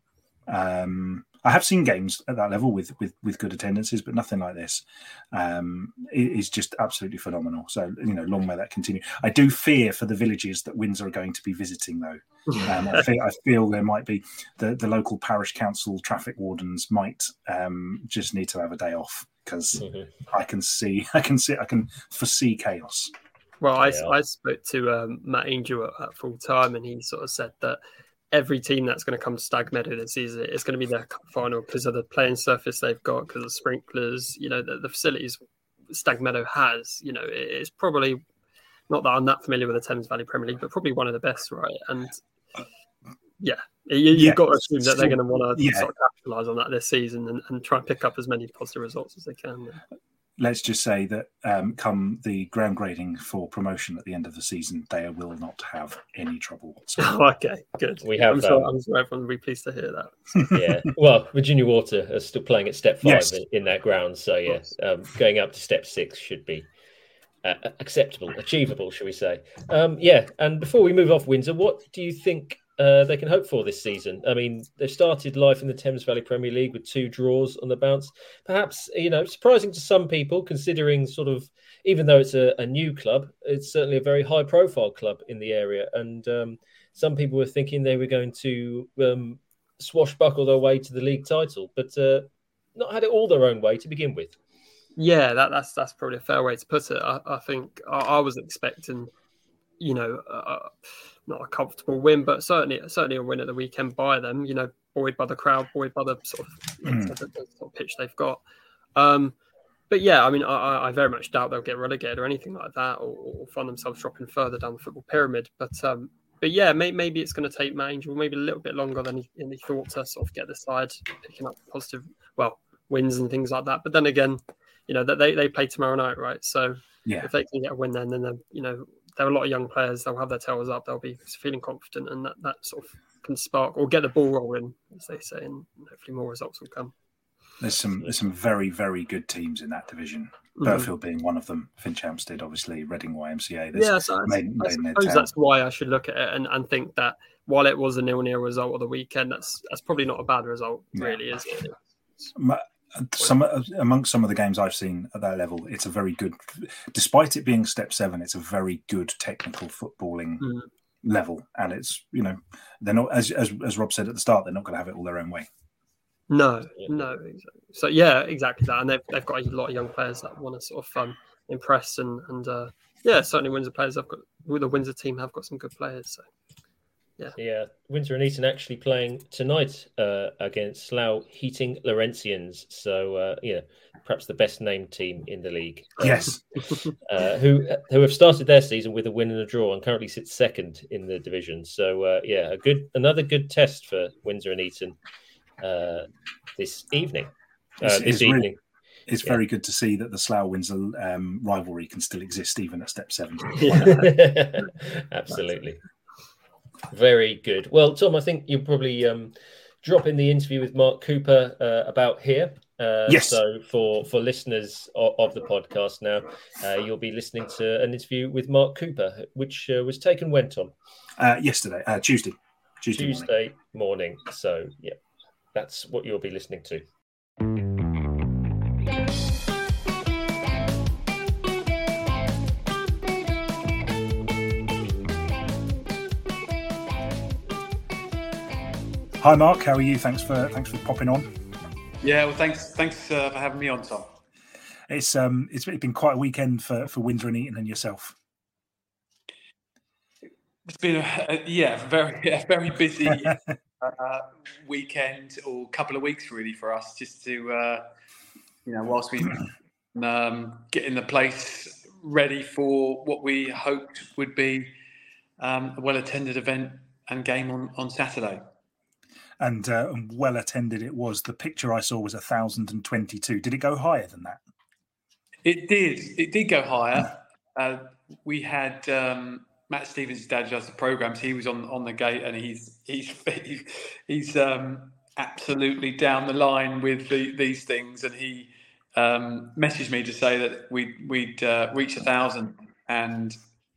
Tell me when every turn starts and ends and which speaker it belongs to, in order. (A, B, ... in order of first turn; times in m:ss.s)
0:00.5-0:23.1 A
0:19.8-0:20.1 B
0:23.6-0:27.8 C
0:23.8-0:24.2 B
0:28.3-0:38.2 C
0:38.9-0:42.2 C
0:43.4-0:49.8 C
0:44.1-0:45.9 A
0:50.4-0:57.1 A
0:57.0-1:00.4 C
0:58.0-0:58.7 B
1:00.5-1:06.7 B
1:03.0-1:03.4 A
1:07.4-1:34.4 B
1:35.0-1:39.1 C
1:39.8-1:40.8 C
1:41.3-1:48.4 C
1:46.8-1:47.2 A
1:49.0-1:49.4 C
1:49.9-2:16.9 C
2:17.6-2:25.3 A
2:20.6-2:20.9 C
2:23.8-2:32.3 C
2:31.0-2:31.2 A
2:32.4-2:40.5 A
2:40.4-2:40.7 C
2:41.0-2:45.5 A
2:46.3-2:56.2 C
2:57.4-3:06.3 B
3:06.0-3:06.4 A
3:07.1-3:15.0 B
3:15.6-3:18.6 B
3:17.8-3:18.5 A
3:19.1-3:23.9 A
3:23.6-3:24.2 C
3:23.7-3:25.8 B
3:26.9-3:40.7 B
3:33.1-3:33.4 A
3:41.2-3:43.3 A
3:42.9-3:45.0 B
3:45.5-3:46.8 B
3:59.2-4:01.3 A
4:02.0-4:04.2 D
4:04.9-4:08.2 A
4:10.7-4:17.9 D
4:18.7-4:24.8 D
4:25.4-4:28.4 D
4:29.4-4:34.4 A
4:35.4-4:53.4 D